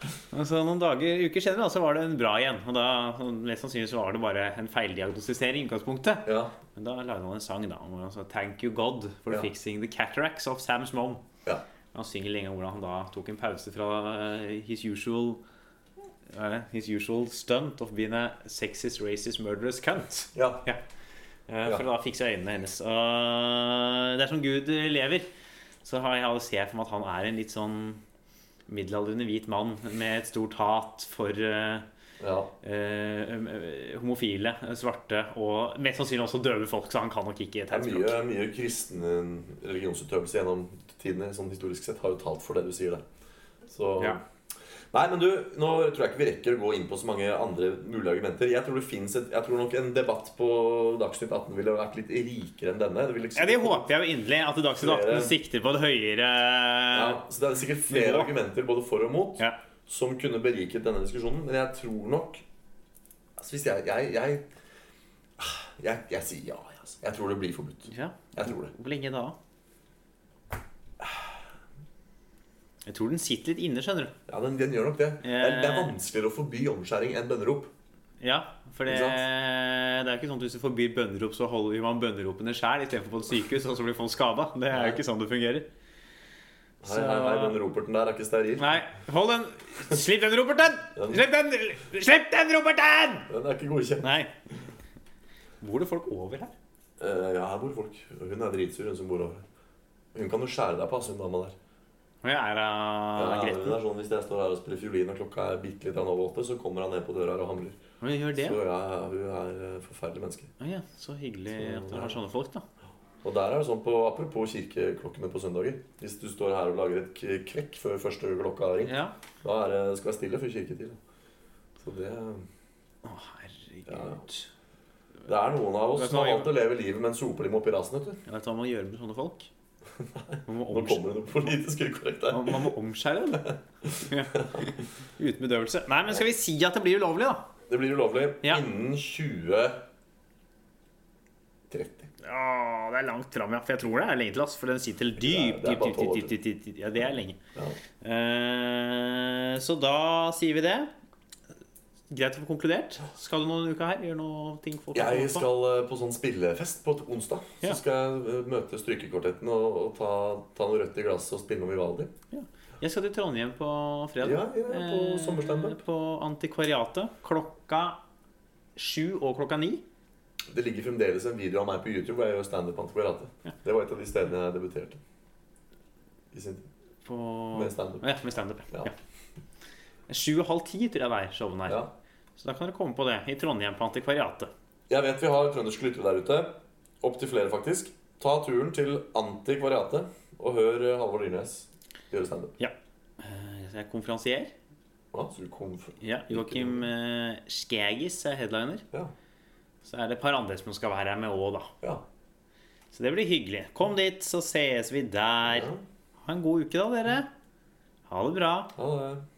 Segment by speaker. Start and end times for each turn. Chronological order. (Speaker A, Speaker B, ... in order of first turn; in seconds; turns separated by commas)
Speaker A: 0.3-11.2, Speaker B: 6.2-6.5, Speaker A: 11.9-15.4, Speaker A: 16.3-20.8, Speaker B: 20.3-20.6, Speaker A: 21.5-25.3, Speaker A: 25.8-28.0, Speaker A: 28.7-31.8, Speaker B: 32.2-32.5, Speaker A: 32.6-38.2, Speaker B: 37.7-43.0, Speaker B: 43.6-44.2, Speaker B: 44.9-53.9, Speaker A: 53.4-57.2, Speaker B: 54.8-55.3, Speaker B: 56.9-62.4, Speaker A: 57.9-58.3, Speaker B: 63.4-64.5, Speaker B: 65.4-68.7, Speaker A: 67.9-69.3, Speaker B: 71.0-71.3, Speaker A: 72.8-74.1, Speaker B: 74.3-77.7, Speaker A: 75.2-76.0, Speaker A: 78.2-85.7, Speaker B: 78.9-79.2, Speaker B: 84.7-85.0, Speaker B: 86.8-88.7, Speaker A: 86.8-87.6, Speaker A: 88.6-93.3, Speaker B: 91.0-91.2, Speaker B: 93.3-94.1, Speaker A: 94.0-94.3, Speaker A: 95.6-96.5, Speaker B: 97.0-99.4, Speaker B: 100.1-101.5, Speaker A: 102.2-103.8, Speaker B: 103.2-107.8, Speaker A: 108.0-108.6, Speaker B: 108.3-110.5, Speaker A: 110.6-112.6, Speaker B: 111.5-112.2, Speaker B: 113.2-121.0, Speaker A: 118.8-119.1, Speaker B: 121.8-122.5, Speaker A: 123.0-124.5, Speaker B: 123.9-124.2, Speaker B: 125.3-128.2, Speaker A: 125.9-126.5, Speaker A: 128.2-129.5, Speaker B: 130.0-132.7, Speaker A: 130.4-131.1, Speaker A: 132.3-137.5, Speaker B: 133.4-134.7, Speaker B: 137.7-139.8, Speaker B: 141.7-142.1, Speaker A: 142.2-147.4, Speaker B: 145.2-146.3, Speaker A: 148.0-150.9, Speaker A: 152.1-155.4, Speaker B: 154.9-162.1, Speaker A: 162.3-168.0, Speaker B: 164.2-165.8, Speaker A: 168.8-169.8, Speaker B: 170.5-175.0, Speaker B: 176.3-176.7, Speaker A: 177.0-178.9, Speaker B: 177.5-178.0, Speaker A: 180.1-181.8, Speaker A: 182.4-184.5, Speaker B: 184.9-192.6, Speaker A: 192.6-194.5, Speaker B: 195.1-196.9, Speaker A: 196.0-198.8, Speaker A: 199.8-201.7, Speaker A: 202.9-205.7, Speaker B: 205.5-205.8, Speaker A: 206.2-207.3, Speaker A: 208.1-208.7, Speaker B: 208.8-209.2